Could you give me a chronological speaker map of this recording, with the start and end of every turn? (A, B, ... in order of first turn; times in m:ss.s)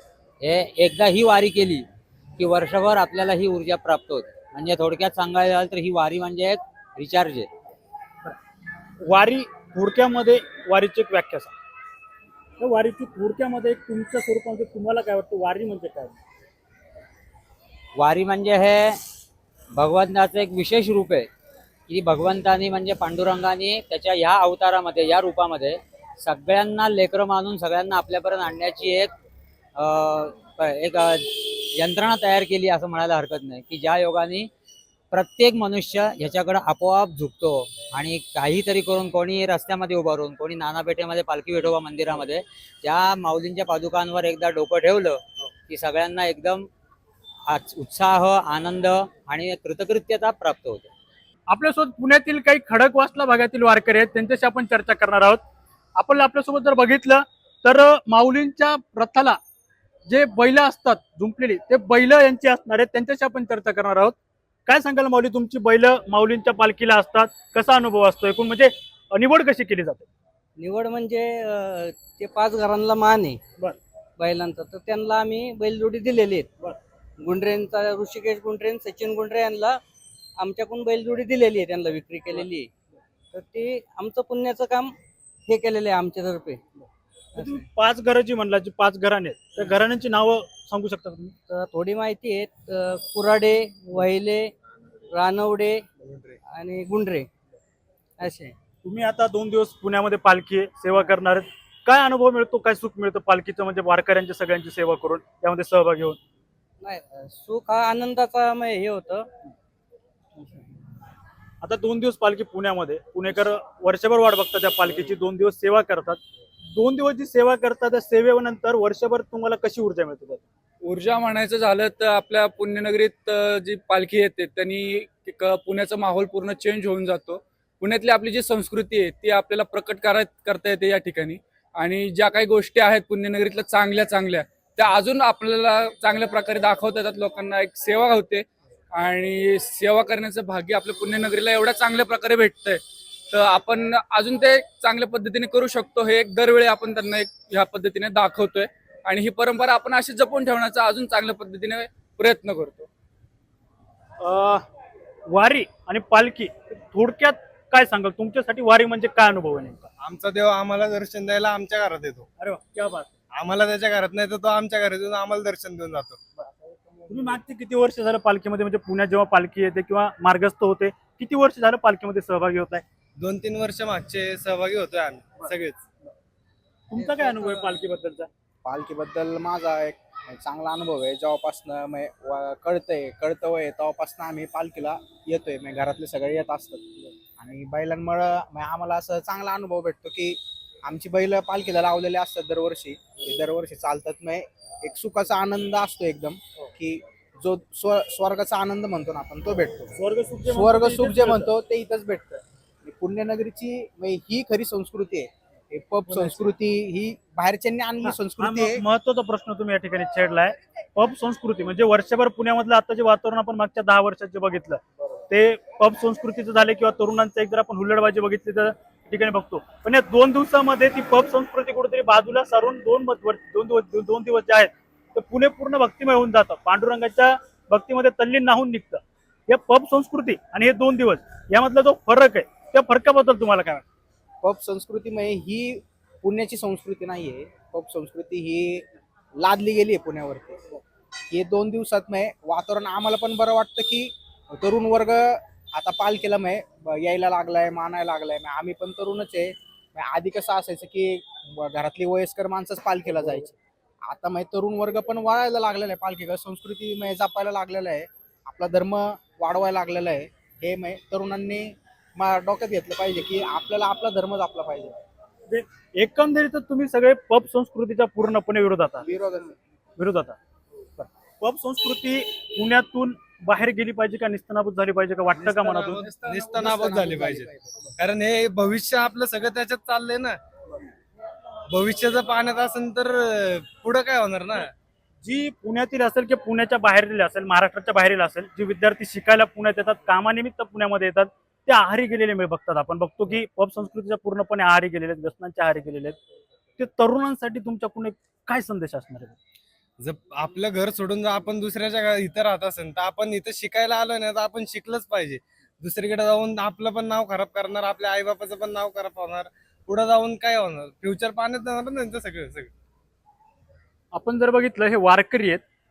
0:00.4-0:01.9 A
0:02.4-0:07.5 A
0:09.0-0:11.5 B
0:12.6-0:16.2 B
0:18.0-0:19.0 A
0:19.7-0:21.3 A
0:21.9-0:29.1 A
0:29.8-0:34.5 A
0:35.1-0:46.7 A
0:47.5-0:50.9 A
0:51.5-0:55.4 B
0:56.0-0:59.4 B
1:00.1-1:10.1 B
1:10.6-1:13.4 C
1:14.2-1:16.5 C
1:17.2-1:19.8 C
1:20.4-1:22.7 C
1:23.3-1:25.0 C
1:25.5-1:26.6 C
1:27.4-1:27.6 C
1:27.4-1:31.4 B
1:31.5-1:34.5 C
1:35.1-1:35.9 C
1:36.4-1:37.3 C
1:38.2-1:38.6 C
1:38.8-1:46.2 B
1:46.8-1:49.3 C
1:51.6-1:56.2 B
1:56.7-2:00.4 B
2:00.8-2:32.9 D
2:34.2-2:34.6 B
2:35.3-2:39.9 B
2:40.0-2:42.2 E
2:42.4-2:43.1 B
2:43.4-2:46.2 E
2:47.1-2:52.8 B
2:53.2-2:55.8 E
2:56.9-2:58.3 B
2:58.6-3:19.9 F
3:19.9-3:21.5 B
3:20.5-3:28.8 F
3:28.0-3:53.8 B
3:54.4-3:58.8 F
3:59.4-4:00.8 F
4:01.3-4:13.6 F
4:14.1-4:25.0 F
4:25.5-4:29.1 B
4:29.0-4:29.5 F
4:30.0-4:30.4 B
4:31.0-4:36.1 B
4:35.4-4:40.4 E
4:36.2-4:37.7 F
4:41.7-4:44.7 E
4:45.2-4:56.2 B
4:56.8-4:59.4 B
5:00.0-5:12.7 E
5:14.1-5:15.6 B